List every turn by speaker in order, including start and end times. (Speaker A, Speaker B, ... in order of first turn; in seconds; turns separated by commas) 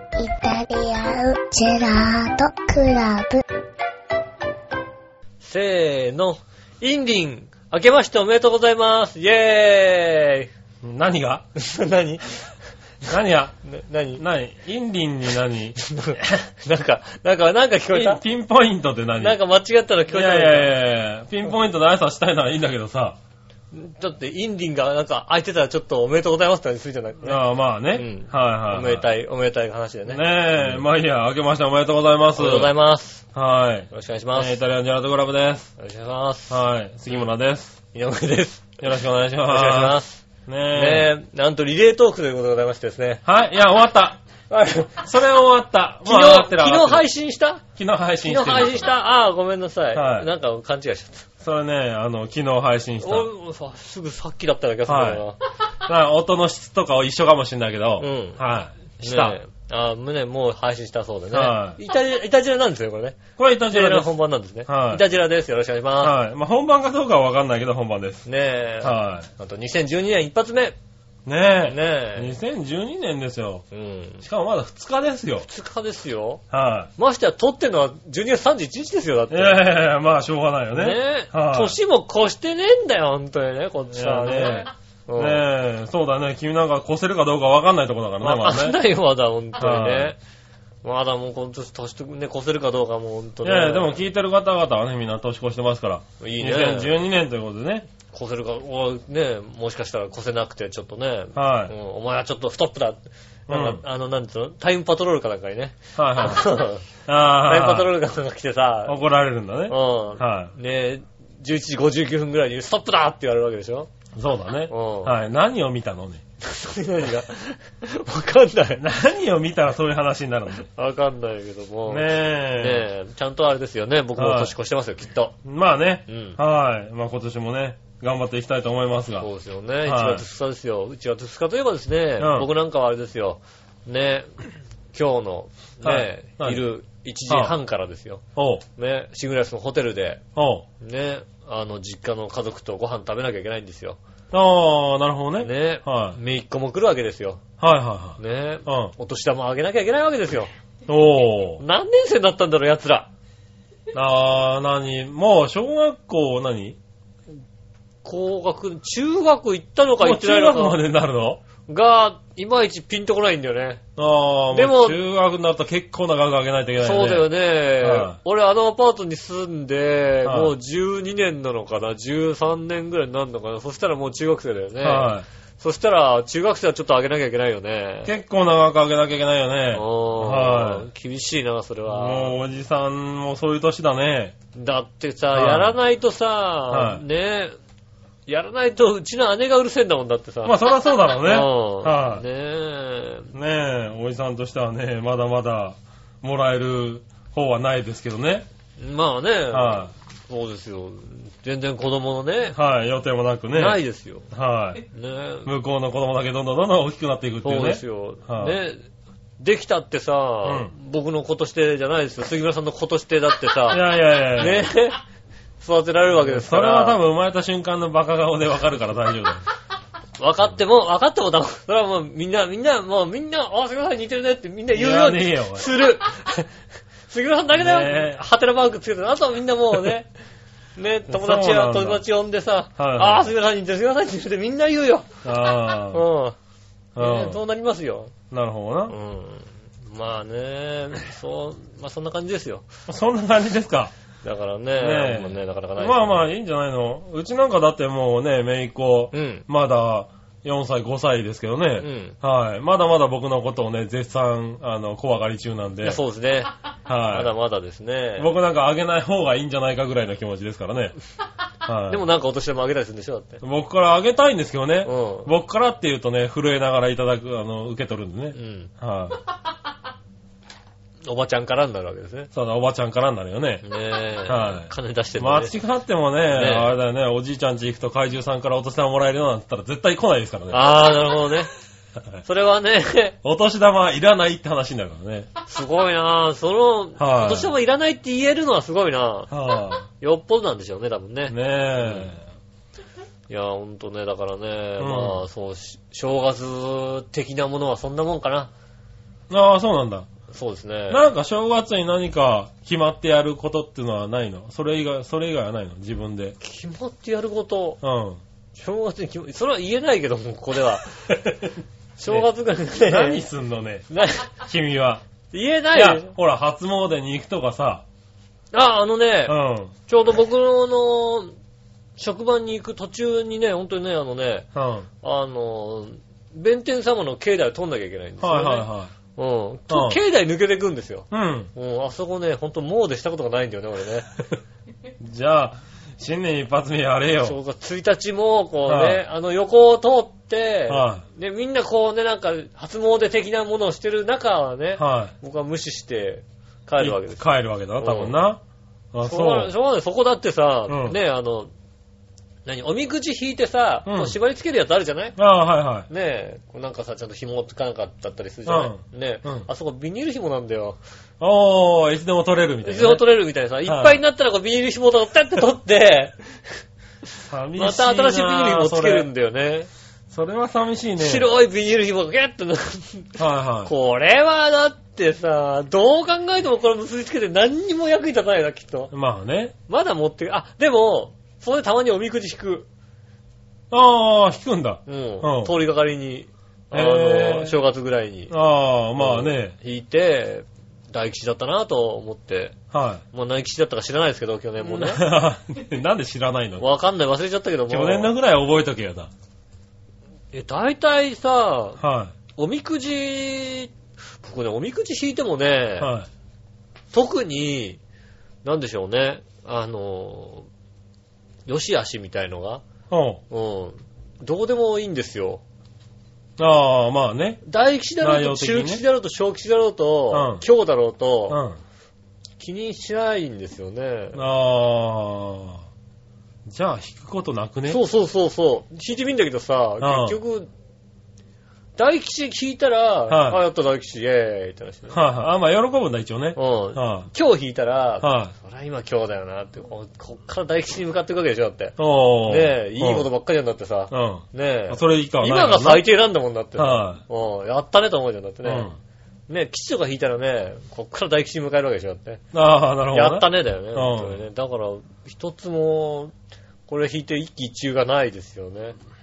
Speaker A: 0.2-3.4, Speaker B: 5.4-10.5, Speaker C: 10.8-11.4, Speaker B: 11.5-12.4, Speaker C: 13.0-13.5, Speaker B: 13.6-14.2, Speaker C: 14.2-15.8, Speaker B: 15.8-18.2, Speaker C: 17.9-19.4, Speaker B: 19.2-20.7, Speaker C: 20.1-23.2, Speaker B: 23.7-27.4, Speaker C: 27.2-29.1, Speaker B: 27.9-30.8, Speaker C: 30.1-32.7, Speaker B: 32.3-33.2, Speaker C: 33.3-35.7, Speaker B: 33.9-34.6, Speaker B: 35.8-37.3, Speaker C: 36.5-37.8, Speaker B: 37.9-38.8, Speaker C: 38.8-41.1, Speaker B: 39.5-43.2, Speaker C: 43.2-44.2, Speaker B: 44.5-45.0, Speaker C: 45.0-47.1, Speaker B: 46.0-47.6, Speaker C: 47.8-48.9, Speaker B: 48.2-51.2, Speaker C: 49.9-50.3, Speaker C: 51.4-53.3, Speaker B: 53.0-55.4, Speaker C: 54.9-55.2, Speaker C: 55.8-59.4, Speaker B: 58.0-58.4, Speaker B: 59.0-63.2, Speaker C: 61.3-61.8, Speaker C: 63.4-64.1, Speaker B: 63.7-66.1, Speaker C: 64.7-65.0, Speaker C: 66.0-68.2, Speaker B: 68.2-70.8, Speaker C: 68.8-69.3, Speaker C: 71.2-73.6, Speaker B: 71.7-72.3, Speaker B: 73.7-74.2, Speaker C: 74.2-75.5, Speaker B: 75.4-76.4, Speaker C: 76.5-76.9, Speaker B: 77.0-79.7, Speaker C: 79.3-81.8, Speaker B: 80.7-85.4, Speaker C: 83.9-88.8, Speaker B: 88.2-90.2, Speaker C: 89.5-90.1, Speaker B: 90.8-94.0, Speaker C: 93.4-97.9, Speaker B: 96.2-97.0, Speaker B: 98.1-106.9, Speaker C: 101.3-101.7, Speaker C: 103.5-103.8, Speaker C: 106.0-107.9, Speaker B: 107.4-109.0, Speaker C: 108.8-110.5, Speaker B: 109.7-113.9, Speaker C: 114.1-116.2, Speaker B: 114.7-115.1, Speaker B: 116.4-118.8, Speaker C: 118.8-120.7, Speaker B: 120.7-125.3, Speaker C: 121.9-122.9, Speaker C: 124.2-124.5, Speaker C: 125.4-129.3, Speaker B: 126.1-126.4, Speaker B: 129.2-134.3, Speaker C: 129.8-130.2, Speaker C: 132.2-132.5, Speaker B: 134.9-138.2, Speaker C: 135.8-136.6, Speaker C: 137.3-137.6, Speaker C: 138.3-138.6, Speaker B: 138.8-140.2, Speaker C: 140.3-140.6, Speaker B: 140.8-144.0, Speaker C: 144.3-146.2, Speaker B: 145.4-147.4, Speaker C: 147.6-148.9, Speaker B: 148.2-150.5, Speaker C: 150.9-151.6, Speaker B: 151.6-153.1, Speaker C: 153.9-156.8, Speaker B: 158.0-160.8, Speaker C: 160.0-161.4, Speaker B: 161.7-163.8, Speaker C: 164.0-168.2, Speaker B: 164.5-165.0, Speaker B: 166.8-178.1, Speaker C: 170.2-170.5, Speaker C: 174.8-175.2, Speaker C: 178.0-180.9, Speaker B: 179.7-182.4, Speaker C: 181.9-184.3, Speaker B: 184.5-187.5, Speaker C: 185.3-185.8, Speaker C: 186.7-187.0, Speaker B: 188.3-190.6, Speaker C: 190.4-192.2, Speaker B: 191.2-193.3, Speaker C: 193.3-198.5, Speaker B: 198.8-202.6, Speaker C: 199.5-199.9, Speaker C: 202.5-203.8, Speaker B: 203.5-204.3, Speaker C: 204.3-204.8, Speaker B: 204.9-205.5, Speaker C: 205.4-208.6, Speaker B: 207.4-208.8, Speaker B: 209.4-215.0, Speaker C: 210.4-210.7, Speaker C: 213.7-214.7, Speaker B: 215.6-217.0, Speaker C: 216.1-219.4, Speaker B: 220.2-226.5, Speaker C: 224.7-225.7, Speaker B: 227.1-230.1, Speaker C: 227.5-228.1, Speaker B: 230.8-235.1, Speaker C: 231.1-232.0, Speaker C: 232.8-233.3, Speaker C: 235.2-236.0, Speaker B: 235.9-236.3, Speaker C: 236.9-237.4, Speaker B: 237.0-238.1, Speaker C: 238.3-238.9, Speaker B: 238.9-242.6, Speaker C: 242.9-243.9, Speaker B: 244.2-246.2, Speaker C: 244.8-256.0, Speaker B: 249.1-249.4, Speaker B: 251.8-252.2, Speaker B: 255.8-256.5, Speaker C: 256.9-257.3, Speaker B: 257.1-258.3, Speaker C: 258.2-260.9, Speaker C: 261.6-262.0, Speaker B: 261.9-263.4, Speaker C: 263.4-269.2, Speaker B: 264.8-265.3, Speaker B: 268.3-268.7, Speaker B: 271.1-272.3, Speaker C: 272.3-273.6, Speaker B: 273.6-275.6, Speaker C: 274.3-280.8, Speaker B: 276.3-276.7, Speaker B: 280.5-281.5, Speaker B: 282.2-283.2, Speaker C: 283.2-285.3, Speaker B: 285.4-289.3, Speaker C: 287.0-287.5, Speaker C: 289.3-289.9, Speaker B: 290.0-292.1, Speaker C: 291.3-292.2, Speaker B: 293.3-298.5, Speaker C: 294.8-295.2, Speaker C: 299.3-300.1, Speaker B: 300.3-301.0, Speaker C: 300.9-306.4, Speaker B: 306.4-307.8, Speaker C: 307.8-308.2, Speaker B: 308.6-311.2, Speaker B: 312.0-313.2, Speaker C: 312.1-315.0, Speaker B: 313.9-314.4, Speaker B: 315.3-316.1, Speaker C: 315.7-317.8, Speaker B: 318.5-319.4, Speaker C: 319.3-319.7, Speaker B: 319.9-321.3, Speaker B: 322.0-324.5, Speaker C: 324.5-324.9, Speaker B: 325.0-334.1, Speaker C: 328.2-328.9, Speaker C: 329.7-330.0, Speaker C: 331.1-331.5, Speaker C: 335.0-337.4, Speaker B: 337.2-347.2, Speaker C: 338.7-339.0, Speaker C: 340.7-341.0, Speaker C: 344.8-345.1, Speaker C: 346.8-348.4, Speaker B: 347.8-348.1, Speaker C: 348.9-349.5, Speaker B: 349.0-351.5, Speaker C: 350.7-351.0, Speaker B: 352.4-355.2, Speaker C: 353.9-354.1, Speaker C: 355.2-355.9, Speaker B: 355.9-360.8, Speaker C: 358.4-359.5, Speaker C: 361.2-363.1, Speaker B: 362.6-366.6, Speaker C: 363.6-364.0, Speaker C: 367.3-369.1, Speaker B: 367.6-369.7, Speaker C: 370.1-371.3, Speaker B: 371.0-378.9, Speaker C: 373.2-373.7, Speaker C: 378.9-379.5, Speaker B: 379.7-382.7, Speaker C: 383.7-385.5, Speaker B: 384.9-388.3, Speaker C: 386.7-387.6, Speaker C: 388.3-389.5, Speaker B: 389.0-392.6, Speaker C: 392.7-393.0, Speaker B: 393.1-395.0, Speaker C: 394.6-396.6, Speaker B: 396.6-398.1, Speaker C: 397.7-399.1, Speaker B: 400.3-401.8, Speaker C: 401.8-402.1, Speaker B: 402.4-405.9, Speaker C: 405.8-406.1, Speaker B: 406.9-407.8, Speaker B: 408.4-410.5, Speaker B: 411.5-412.6, Speaker C: 412.9-413.2, Speaker B: 413.3-415.4, Speaker C: 416.4-417.4, Speaker B: 417.4-421.4, Speaker C: 418.0-418.8, Speaker C: 420.1-420.4, Speaker C: 421.3-421.6, Speaker B: 422.4-424.2, Speaker C: 424.1-425.6, Speaker C: 426.4-427.8, Speaker B: 427.7-430.5, Speaker C: 429.8-430.2, Speaker B: 431.8-435.0, Speaker C: 433.1-433.4, Speaker C: 434.9-437.1, Speaker B: 436.4-441.8, Speaker C: 438.0-438.3, Speaker C: 441.8-443.1, Speaker B: 442.3-448.7, Speaker C: 443.9-445.9, Speaker C: 446.6-447.0, Speaker C: 448.4-448.8, Speaker B: 449.3-452.2, Speaker C: 452.3-454.2, Speaker B: 452.9-456.1, Speaker B: 456.7-458.7